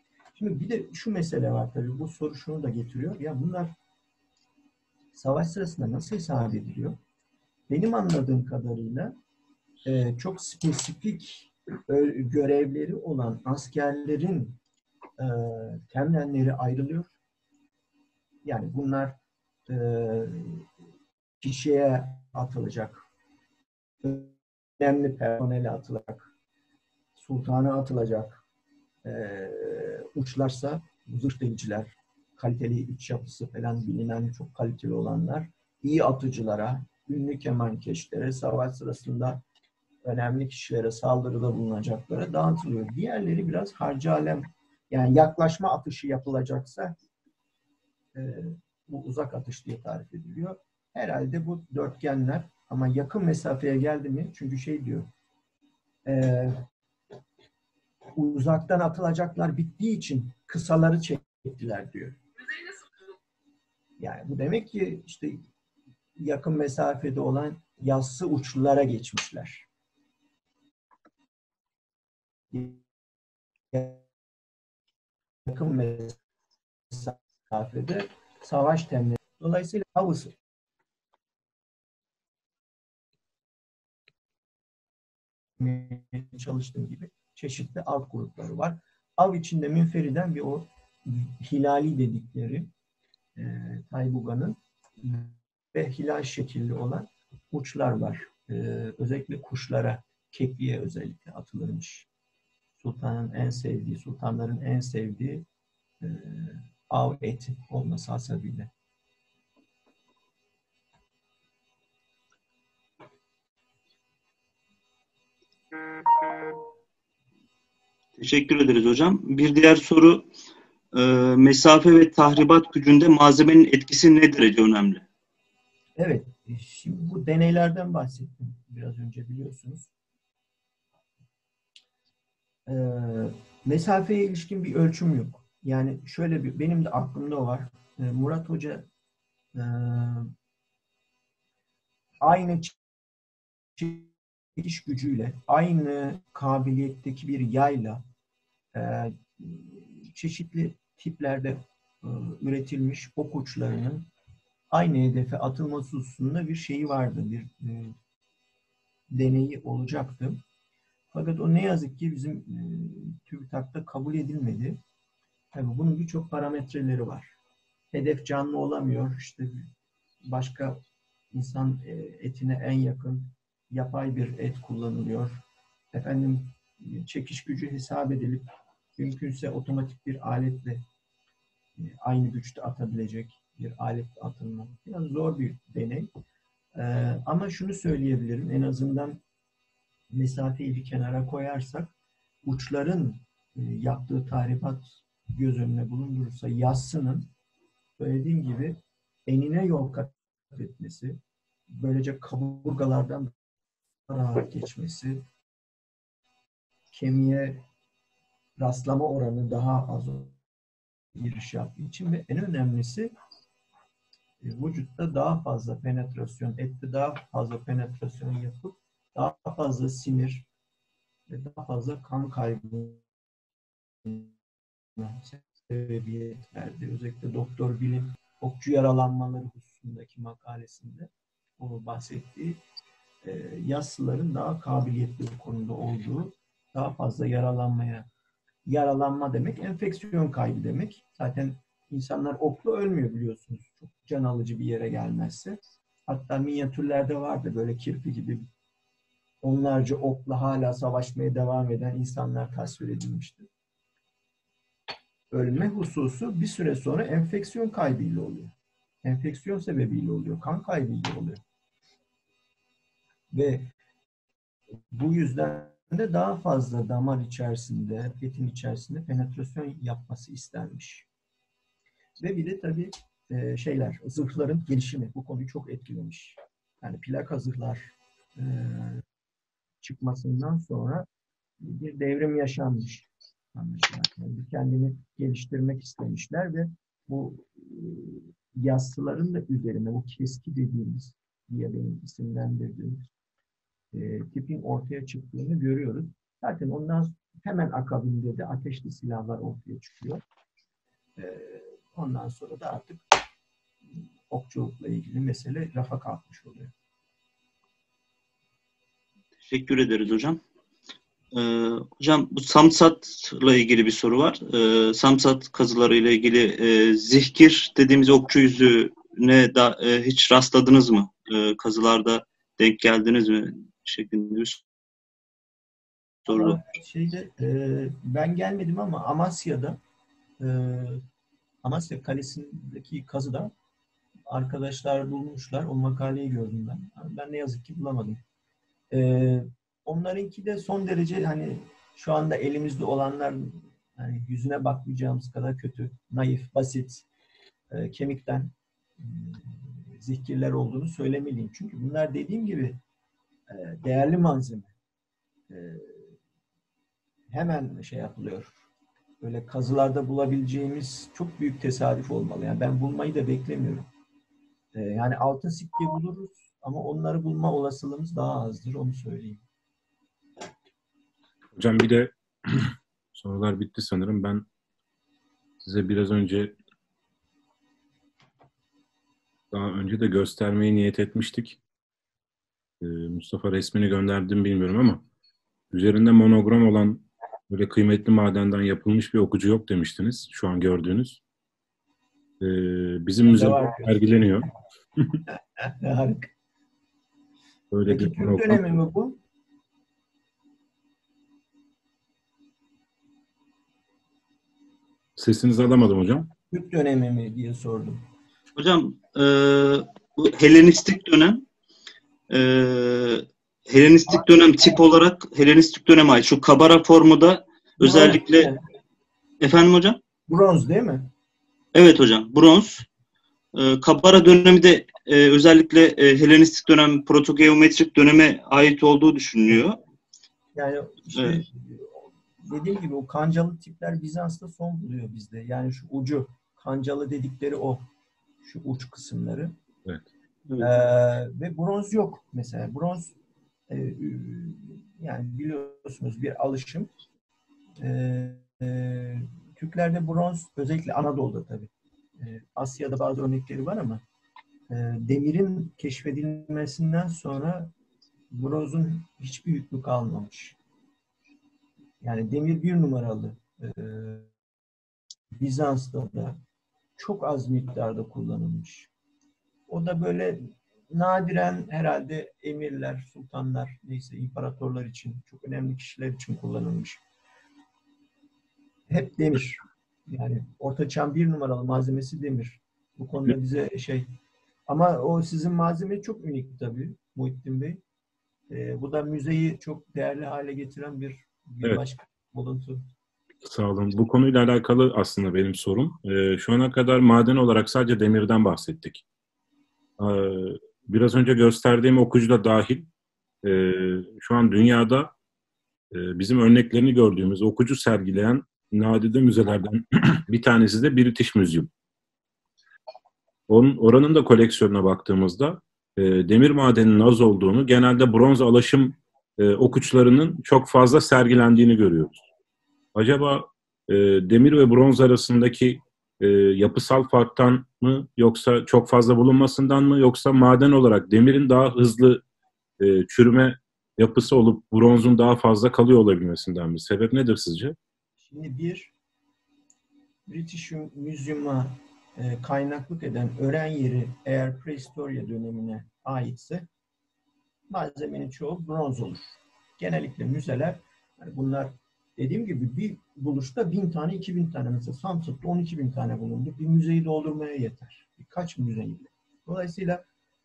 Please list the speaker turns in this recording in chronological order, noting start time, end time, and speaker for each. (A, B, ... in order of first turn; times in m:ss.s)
0:00.3-0:03.7 A
0:05.1-0:07.0 A
0:07.7-0:09.2 A
0:09.8-0:14.6 A
0:15.2-0:17.1 A
0:18.4-0:20.7 A
0:21.4-0:23.0 A
0:24.0-0:26.3 A
0:27.2-0:28.4 A
0:29.0-0:39.4 A
0:40.0-0:47.0 A
0:48.1-0:55.1 A
0:56.0-0:56.6 A
0:58.1-1:02.2 A
1:04.0-1:05.4 A
1:06.2-1:09.7 A
1:12.5-1:12.8 A
1:13.7-1:14.0 A
1:15.4-1:16.2 A
1:16.9-1:20.3 A
1:25.6-1:32.7 A
1:33.4-1:42.1 A
1:42.8-1:45.4 A
1:46.0-1:48.7 A
1:58.2-2:00.3 B
2:00.9-2:05.0 B
2:06.0-2:09.9 A
2:12.7-2:18.8 A
2:19.5-2:20.3 A
2:22.2-2:22.8 A
2:23.8-2:28.0 A
2:28.7-2:34.1 A
2:34.7-2:38.0 A
2:39.1-2:40.4 A
2:41.1-2:44.8 A
2:45.5-2:47.3 A
2:47.9-2:49.7 A
2:50.2-2:50.8 A
2:51.3-2:55.4 A
2:55.9-3:00.8 A
3:01.8-3:06.1 A
3:06.7-3:09.2 A
3:10.1-3:11.9 A
3:12.4-3:17.3 A
3:18.0-3:21.2 A
3:21.7-3:23.3 A
3:24.1-3:25.2 A
3:26.9-3:27.6 A
3:28.6-3:30.4 A
3:31.1-3:33.1 A
3:34.4-3:40.5 A
3:41.3-3:43.0 A
3:44.0-3:44.3 A
3:45.0-3:52.6 A
3:53.2-3:58.1 A
3:58.6-4:08.4 A
4:09.4-4:13.5 A
4:15.3-4:21.4 A
4:23.3-4:23.7 A
4:24.9-4:31.1 A
4:32.2-4:39.0 A
4:39.8-4:41.1 A
4:41.6-4:53.1 A
4:53.9-5:00.2 A
5:01.2-5:03.0 A
5:04.3-5:06.7 A
5:09.4-5:10.4 B
5:11.3-5:24.6 B
5:26.3-5:26.6 B
5:26.3-5:29.8 A
5:30.4-5:31.0 A
5:31.6-5:33.5 A
5:34.3-5:38.2 A
5:38.9-5:47.1 A
5:47.7-5:52.8 A
5:53.5-5:54.7 A
5:55.5-5:56.2 A
5:57.3-5:58.6 A
5:59.2-6:03.9 A
6:04.7-6:09.4 A
6:11.5-6:14.4 C
6:15.6-6:16.6 C
6:19.5-6:21.6 C
6:22.8-6:25.0 C
6:25.7-6:31.2 C
6:32.4-6:34.5 C
6:33.3-6:34.2 A
6:35.3-6:36.3 A
6:37.7-6:38.7 C
6:37.9-6:39.2 A
6:45.2-6:46.3 C
6:46.5-6:48.0 A
6:48.6-6:51.4 B
6:52.3-6:58.5 B
6:57.8-6:58.6 A
6:59.4-7:00.0 B
7:00.3-7:01.1 A
7:01.7-7:02.9 B
7:03.5-7:09.8 B
7:10.5-7:17.8 A
7:11.1-7:11.4 B
7:18.4-7:19.5 A
7:20.5-7:20.8 B
7:20.6-7:23.2 A
7:23.7-7:26.9 A
7:27.8-7:34.0 A
7:34.7-7:37.7 A
7:38.3-7:40.6 A
7:42.0-7:44.3 A
7:45.3-7:46.4 A
7:47.0-7:48.9 A
7:49.7-7:57.0 A
7:58.9-8:04.1 A
8:04.7-8:07.8 A
8:08.5-8:12.8 A
8:13.4-8:19.0 C
8:20.0-8:22.9 C
8:23.4-8:25.1 C
8:25.9-8:31.7 C
8:33.5-8:42.2 C
8:42.9-8:52.2 C
8:52.8-8:57.8 C
8:58.2-8:58.9 A
9:00.3-9:06.7 A
9:07.7-9:20.0 A